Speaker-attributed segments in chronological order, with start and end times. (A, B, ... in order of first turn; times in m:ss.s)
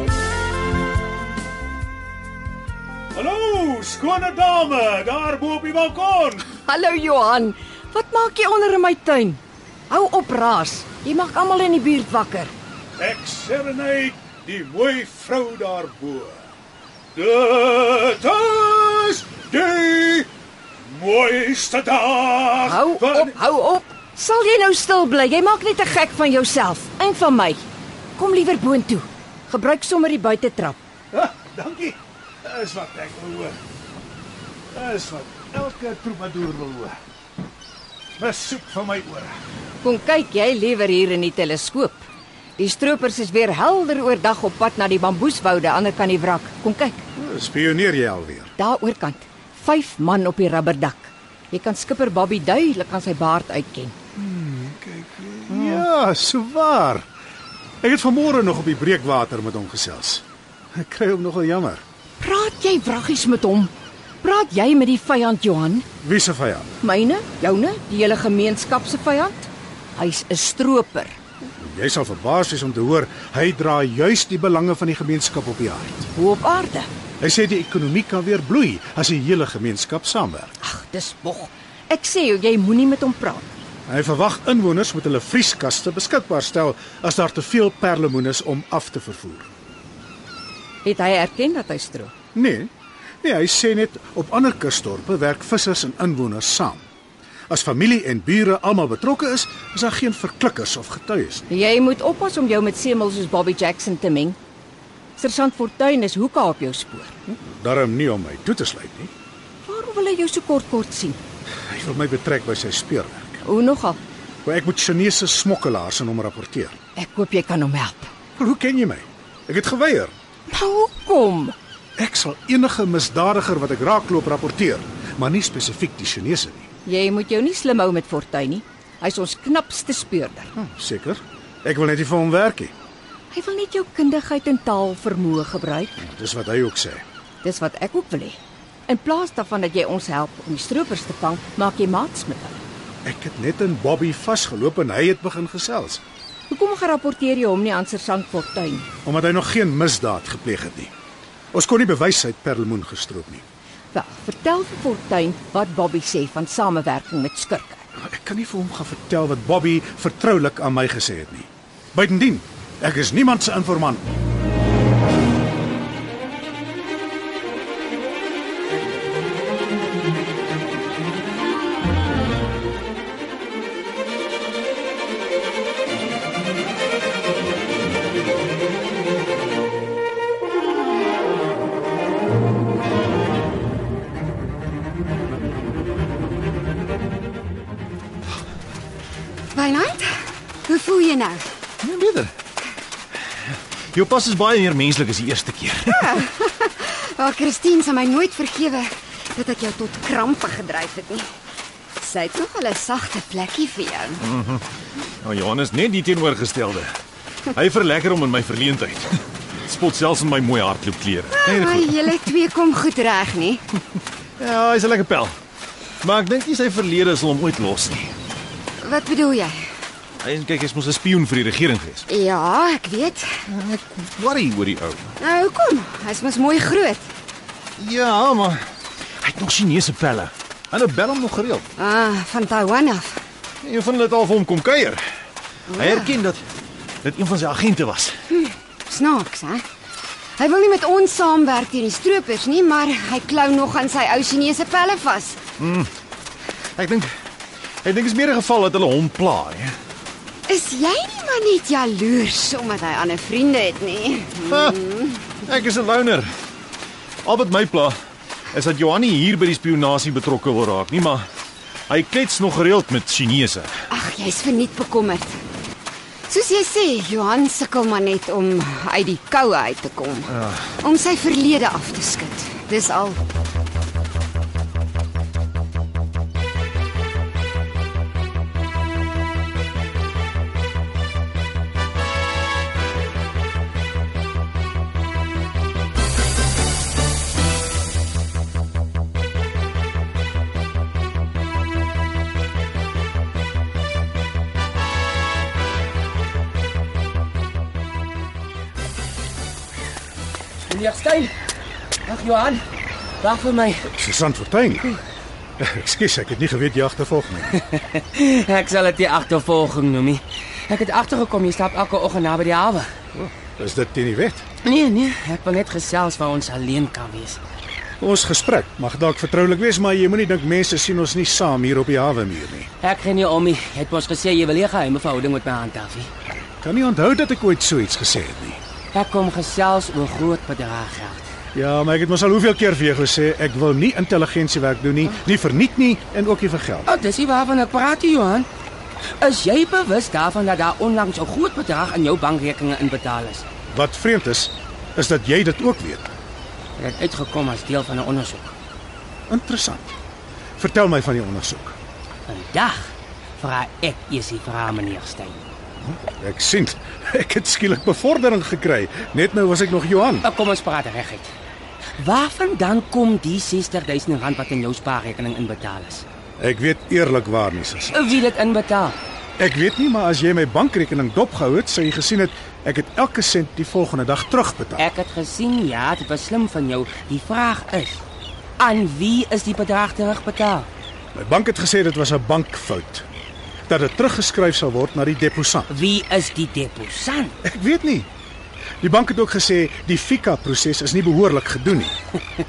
0:03.1-0:06.4 A
0:06.5-0:12.5 B
0:13.0-0:16.4 A
0:17.2-0:20.3 A
0:20.8-0:23.4 A
0:22.6-0:27.6 B
0:28.2-0:30.8 B
0:31.1-0:33.6 A
0:34.7-0:37.0 A
0:38.2-0:39.4 A
0:39.8-0:47.0 B
0:47.2-0:48.5 A
0:48.6-0:54.0 B
0:54.2-0:57.1 A
0:57.8-1:01.8 A
1:02.2-1:05.8 B
1:06.0-1:06.8 A
1:06.8-1:11.2 B
1:11.6-1:16.1 A
1:16.2-1:16.9 B
1:17.2-1:20.5 A
1:20.6-1:23.5 B
1:23.9-1:29.5 A
1:30.8-1:32.1 B
1:32.3-1:32.7 A
1:33.2-1:36.8 A
1:37.5-1:41.5 A
1:41.5-1:44.4 B
1:45.2-1:47.2 B
1:47.3-1:49.1 A
1:49.6-1:51.2 B
1:51.7-1:53.4 A
1:53.4-1:54.0 B
1:54.4-1:56.8 A
1:57.0-1:58.1 B
1:58.4-2:00.1 A
2:00.5-2:01.6 B
2:02.0-2:06.7 A
2:06.9-2:10.5 B
2:10.6-2:12.7 A
2:13.3-2:16.0 B
2:16.0-2:17.0 A
2:17.4-2:22.6 B
2:23.0-2:26.0 A
2:26.5-2:28.9 B
2:29.0-2:30.9 A
2:31.5-2:33.4 A
2:33.9-2:37.8 B
2:38.0-2:44.0 A
3:09.5-3:11.5 C
3:11.8-3:12.3 D
3:13.9-3:16.1 D
3:15.9-3:21.3 C
3:22.0-3:24.2 C
3:24.2-3:24.6 D
3:25.2-3:26.9 D
3:27.5-3:32.0 D
3:31.3-3:33.6 C
3:34.4-3:35.4 D
3:36.0-3:38.1 D
3:38.8-3:39.7 C
3:40.2-3:42.0 D
3:42.1-3:43.4 C
3:43.5-3:45.2 D
3:45.2-3:47.1 C
3:47.8-3:48.6 D
3:49.2-3:51.7 D
3:51.8-3:53.2 C
3:53.6-3:55.0 D
3:55.7-3:56.1 C
3:55.7-3:56.4 D
3:57.0-3:58.2 D
3:58.9-3:59.6 C
4:00.4-4:05.4 C
4:05.6-4:05.9 D
4:06.8-4:07.2 D
4:07.8-4:09.8 D
4:10.5-4:15.2 C
4:14.5-4:14.8 D
4:15.4-4:16.3 D
4:17.2-4:18.0 D
4:18.5-4:21.3 D
4:21.9-4:23.7 D
4:23.9-4:25.4 C
4:26.3-4:33.2 C
5:00.7-5:01.4 E
5:02.0-5:02.6 E
5:03.2-5:03.9 E
5:04.0-5:04.9 A
5:05.6-5:07.6 A
5:07.5-5:12.9 E
5:13.2-5:14.4 A
5:14.6-5:17.4 E
5:18.0-5:22.7 A
5:22.8-5:26.1 E
5:26.6-5:28.6 A
5:28.9-5:31.3 E
5:31.6-5:36.9 A
5:36.9-5:38.5 E
5:39.2-5:43.4 E
5:43.7-5:46.1 A
5:46.8-5:48.5 E
5:49.3-5:49.9 A
5:50.6-5:51.8 A
5:52.3-5:55.4 E
5:55.8-6:00.3 A
6:00.2-6:01.3 E
6:02.0-6:06.1 E
6:06.4-6:08.2 A
6:07.9-6:09.0 E
6:09.4-6:14.8 A
6:14.8-6:18.0 E
6:18.6-6:20.7 E
6:21.2-6:23.1 A
6:23.7-6:25.7 A
6:25.7-6:27.4 E
6:27.4-6:28.1 A
6:28.8-6:32.0 A